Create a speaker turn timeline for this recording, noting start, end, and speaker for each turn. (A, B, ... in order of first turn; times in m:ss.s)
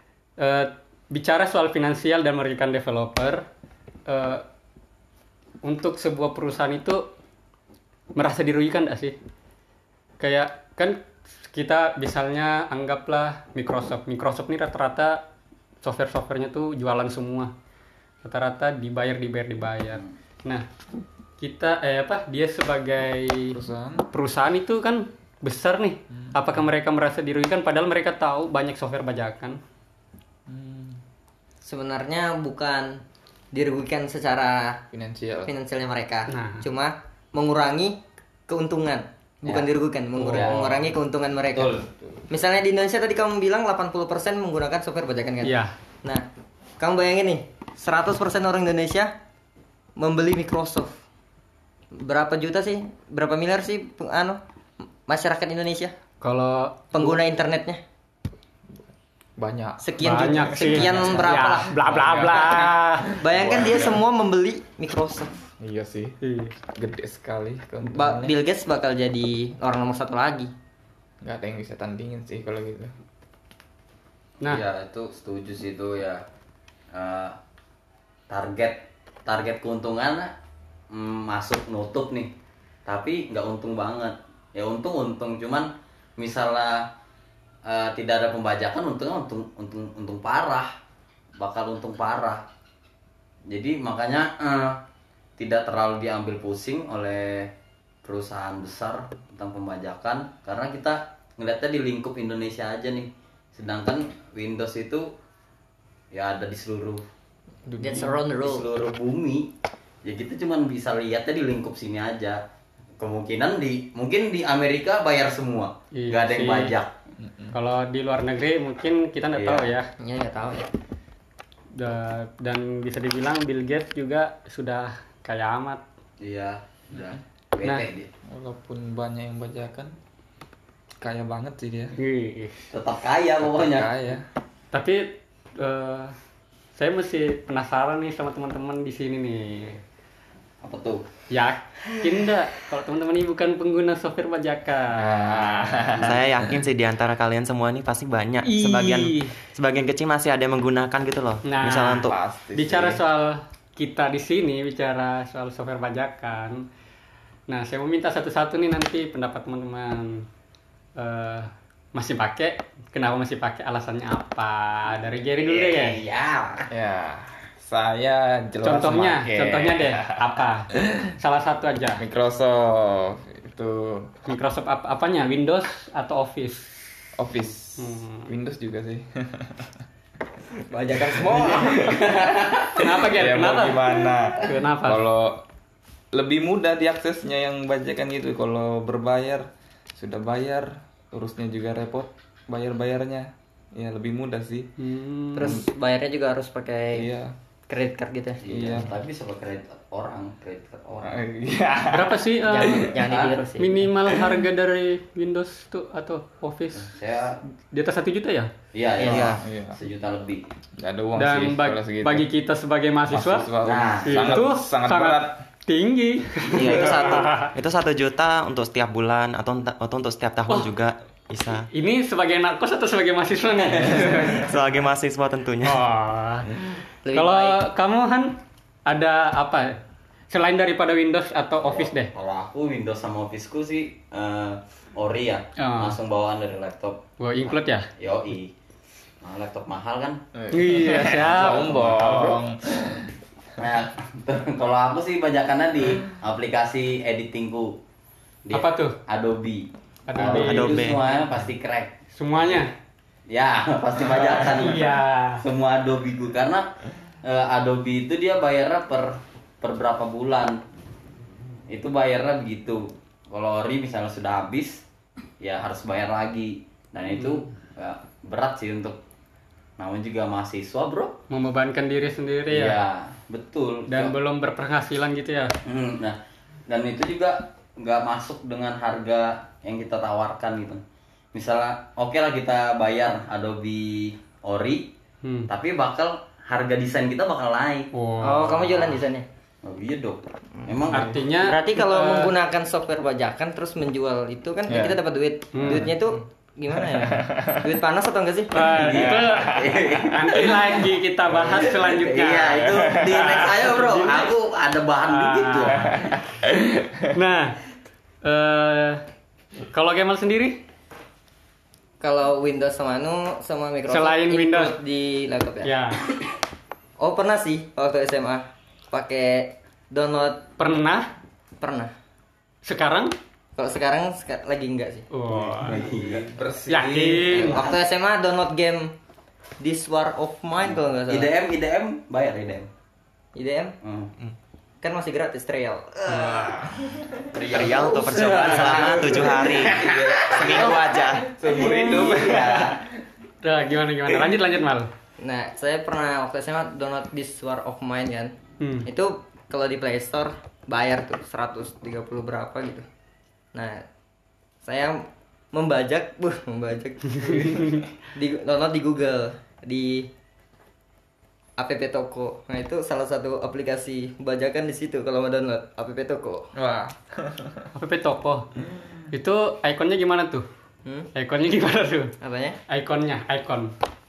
0:00.4-0:03.4 A
0:04.1-0:04.4 A
0:05.6-0:07.1 A
0:08.2-0:09.2 A
0:10.2-0:15.2 A
0:15.8-0:17.5 A
0:18.2-0:20.6 A
0:21.4-0:23.6 A
0:23.5-0:24.1 B
0:24.1-0:29.6 A
0:26.1-0:26.5 B
0:30.5-0:31.0 B
0:31.6-0:34.8 C
0:34.9-0:35.5 B
0:35.4-0:41.8 C
0:36.3-0:36.6 A
0:40.2-0:40.7 A
0:40.3-0:40.6 D
0:41.7-0:42.2 B
0:42.3-0:46.2 C
0:45.4-0:45.7 A
0:46.8-0:49.1 C
0:50.0-0:51.0 C
0:51.9-0:54.4 C
0:55.1-0:55.9 C
0:56.2-0:57.1 A
0:56.9-0:57.8 C
0:59.4-1:04.0 B
0:59.8-1:01.7 C
1:00.0-1:03.1 A
1:03.2-1:05.5 C
1:05.6-1:06.2 B
1:06.2-1:06.5 A
1:06.7-1:08.3 B
1:07.8-1:10.5 C
1:11.2-1:12.9 B
1:14.5-1:16.2 D
1:16.9-1:17.4 D
1:18.3-1:20.3 D
1:20.9-1:22.3 D
1:22.8-1:26.9 D
1:27.6-1:30.7 D
1:31.4-1:32.4 D
1:33.5-1:34.8 D
1:35.4-1:37.5 D
1:38.0-1:45.1 D
1:46.1-1:47.0 D
1:47.7-1:48.2 B
1:47.8-1:48.6 C
1:48.4-1:49.5 D
1:50.0-1:52.4 D
1:53.0-1:56.9 D
1:55.9-1:56.7 A
1:57.2-1:57.6 B
1:57.5-1:59.9 A
1:59.4-1:59.7 D
2:00.0-2:00.7 C
2:01.7-2:05.8 A
2:06.2-2:08.1 D
2:08.3-2:09.9 B
2:11.0-2:11.9 B
2:12.0-2:12.7 A
2:12.7-2:13.9 D
2:13.4-2:14.2 B
2:14.7-2:16.2 A
2:16.7-2:19.8 A
2:20.6-2:21.0 D
2:21.3-2:25.7 A
2:24.9-2:26.6 B
2:26.0-2:32.2 E
2:28.4-2:29.4 A
2:31.4-2:36.6 A
2:32.0-2:33.0 B
2:37.5-2:40.2 A
2:41.0-2:46.0 A
2:45.4-2:46.7 D
2:46.7-2:51.1 B
2:48.6-2:52.0 A
2:52.0-2:54.1 B
2:54.3-2:56.8 A
2:57.2-2:59.8 B
2:57.8-2:58.3 A
3:00.7-3:02.0 C
3:01.0-3:02.2 B
3:01.7-3:02.7 D
3:02.7-3:05.0 A
3:02.8-3:05.4 B
3:06.1-3:14.7 B
3:14.8-3:15.6 A
3:15.4-3:17.1 C
3:16.9-3:17.3 B
3:17.7-3:18.4 C
3:18.4-3:21.2 D
3:18.5-3:18.9 B
3:21.0-3:23.0 B
3:21.9-3:22.9 A
3:22.5-3:23.8 C
3:23.0-3:23.4 D
3:23.6-3:26.9 A
3:24.1-3:24.4 B
3:26.8-3:27.4 D
3:27.7-3:28.5 A
3:28.7-3:30.4 D
3:29.0-3:29.4 C
3:29.0-3:29.4 E
3:29.1-3:29.8 B
3:30.8-3:32.3 B
3:31.2-3:33.5 A
3:33.1-3:35.4 B
3:33.6-3:34.4 D
3:34.0-3:37.5 A
3:36.5-3:37.3 C
3:37.5-3:41.7 E
3:41.7-3:44.5 A
3:43.8-3:44.1 D
3:44.3-3:45.8 E
3:45.6-3:52.1 A
3:47.0-3:47.6 C
3:51.6-3:57.0 D
3:55.6-3:56.0 A
3:57.2-3:57.9 A
3:58.0-3:58.5 D
3:59.2-4:00.2 D
4:00.3-4:03.1 B
4:00.5-4:01.8 A
4:01.6-4:02.4 D
4:03.6-4:07.8 D
4:08.4-4:12.6 D
4:08.5-4:09.0 A
4:10.1-4:10.9 A
4:10.2-4:11.0 E
4:12.1-4:12.7 A
4:13.3-4:16.7 D
4:14.4-4:15.4 A
4:17.2-4:20.6 D
4:21.7-4:24.8 D
4:25.4-4:29.0 D
4:29.8-4:31.2 D
4:31.3-4:32.8 A
4:32.5-4:34.1 D
4:33.9-4:35.5 A
4:35.6-4:40.8 D
4:41.3-4:44.9 D
4:45.2-4:45.5 A
4:45.5-4:47.9 D
4:47.9-4:48.8 A
4:48.2-4:49.2 C
4:48.4-4:49.0 D
4:49.6-4:51.1 D
4:50.6-4:58.5 C
4:50.9-4:52.3 A
4:50.9-4:51.2 B
4:54.7-4:55.0 B
4:55.5-4:55.9 A
4:56.7-4:57.8 B
4:58.5-5:04.3 A
4:58.7-5:00.5 D
4:58.8-5:00.6 B
5:01.5-5:05.9 D
5:02.6-5:03.2 B
5:05.1-5:06.1 A
5:05.7-5:07.1 B
5:07.1-5:07.6 A
5:08.2-5:09.0 A
5:09.7-5:10.6 A
5:12.0-5:15.7 C
5:13.9-5:14.7 A
5:15.6-5:16.0 A
5:17.0-5:20.5 C
5:20.6-5:21.1 A
5:21.6-5:21.9 C
5:22.6-5:23.1 A
5:23.6-5:25.1 C
5:25.1-5:25.8 A
5:25.3-5:27.7 B
5:25.6-5:26.3 D
5:26.7-5:27.6 A
5:27.4-5:28.9 C
5:29.6-5:31.3 C
5:30.6-5:32.7 D
5:33.3-5:33.7 C
5:33.8-5:34.1 D
5:34.8-5:36.4 C
5:36.1-5:36.5 D
5:36.4-5:36.9 B
5:37.3-5:40.8 D
5:37.5-5:41.3 E
5:38.7-5:42.8 B
5:41.4-5:42.8 D
5:43.4-5:44.9 A
5:45.2-5:48.3 C
5:48.6-5:48.9 A
5:48.8-5:52.8 C
5:53.5-5:53.8 C
5:54.6-6:00.1 C
5:57.2-5:57.8 A
5:57.2-5:57.8 B
6:01.6-6:06.5 C
6:06.5-6:07.7 B
6:07.7-6:08.5 A
6:09.1-6:10.4 A
6:11.1-6:12.1 A
6:12.2-6:12.6 C
6:12.7-6:13.7 A